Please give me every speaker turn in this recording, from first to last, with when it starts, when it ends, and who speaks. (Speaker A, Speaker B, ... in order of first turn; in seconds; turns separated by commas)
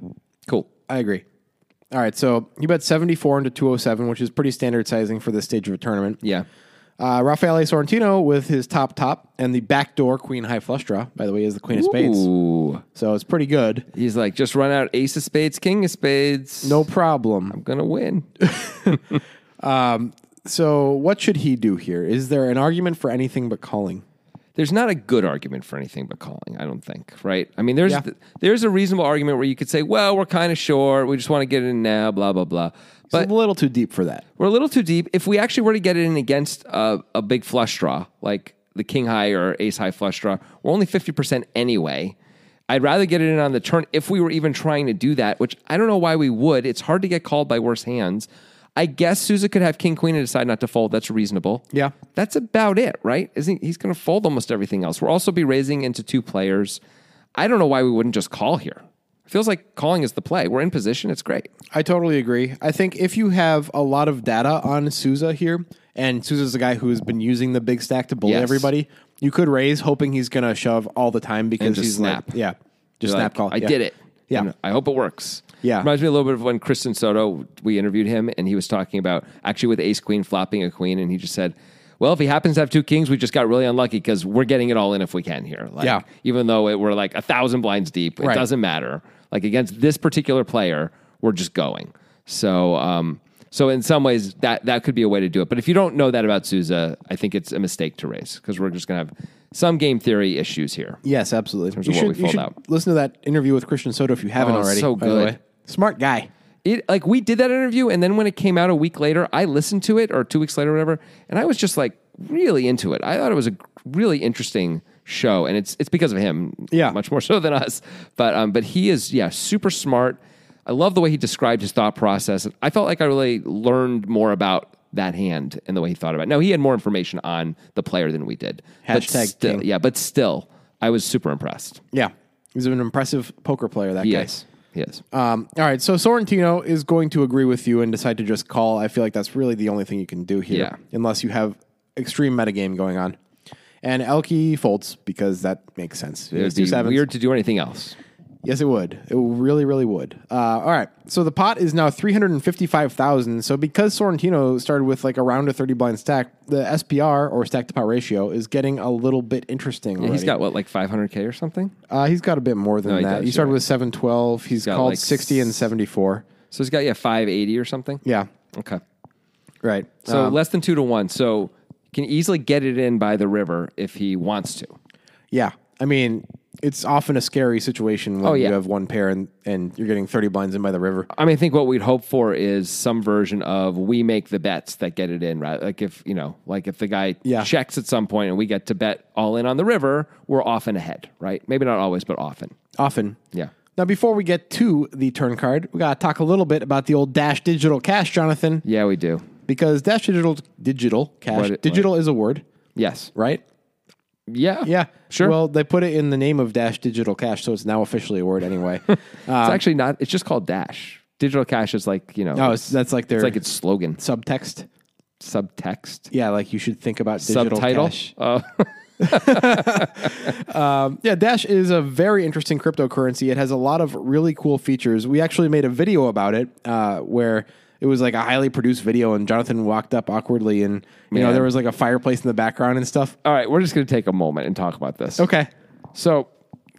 Speaker A: 0.9-1.2, Speaker A: 1.9-6.2, Speaker A: 7.0-12.3, Speaker B: 11.7-12.8, Speaker A: 12.9-13.8, Speaker B: 13.9-16.9, Speaker A: 16.6-17.6, Speaker B: 17.5-18.3, Speaker A: 18.4-19.0, Speaker A: 19.6-24.0, Speaker B: 24.6-33.3, Speaker A: 33.1-34.2, Speaker B: 34.4-42.1, Speaker B: 42.7-56.8, Speaker B: 57.3-61.5, Speaker A: 61.7-73.8, Speaker B: 68.2-68.7, Speaker B: 71.6-72.3, Speaker B: 73.0-101.0, Speaker A: 75.6-75.9, Speaker A: 101.0-106.3, Speaker B: 101.7-102.5, Speaker B: 104.4-105.4, Speaker B: 106.6-131.8, Speaker A: 116.7-117.0, Speaker A: 128.8-129.7, Speaker A: 131.9-134.3, Speaker B: 134.0-135.0, Speaker A: 135.1-143.2, Speaker B: 140.5-140.8, Speaker A: 143.8-147.0, Speaker B: 146.3-147.9, Speaker A: 148.4-160.3, Speaker B: 160.0-161.7, Speaker A: 161.9-166.3, Speaker B: 162.8-163.6, Speaker B: 164.6-165.5, Speaker B: 166.5-168.8, Speaker A: 169.6-170.4, Speaker B: 170.1-174.8, Speaker A: 175.3-181.1, Speaker B: 178.2-178.6, Speaker B: 181.1-192.5, Speaker A: 187.2-187.5, Speaker A: 192.8-193.2, Speaker A: 193.8-198.6, Speaker B: 198.6-199.2, Speaker A: 199.5-202.4, Speaker B: 201.3-201.9, Speaker B: 202.8-203.1, Speaker A: 203.1-203.4, Speaker B: 204.3-205.3, Speaker A: 204.6-209.6, Speaker B: 209.4-214.0, Speaker A: 212.3-213.4, Speaker A: 214.0-214.7, Speaker B: 215.2-216.1, Speaker A: 216.1-218.1, Speaker B: 217.2-220.3, Speaker A: 219.0-233.2, Speaker B: 231.1-231.5, Speaker B: 233.2-235.3, Speaker A: 235.2-235.5, Speaker B: 235.9-236.3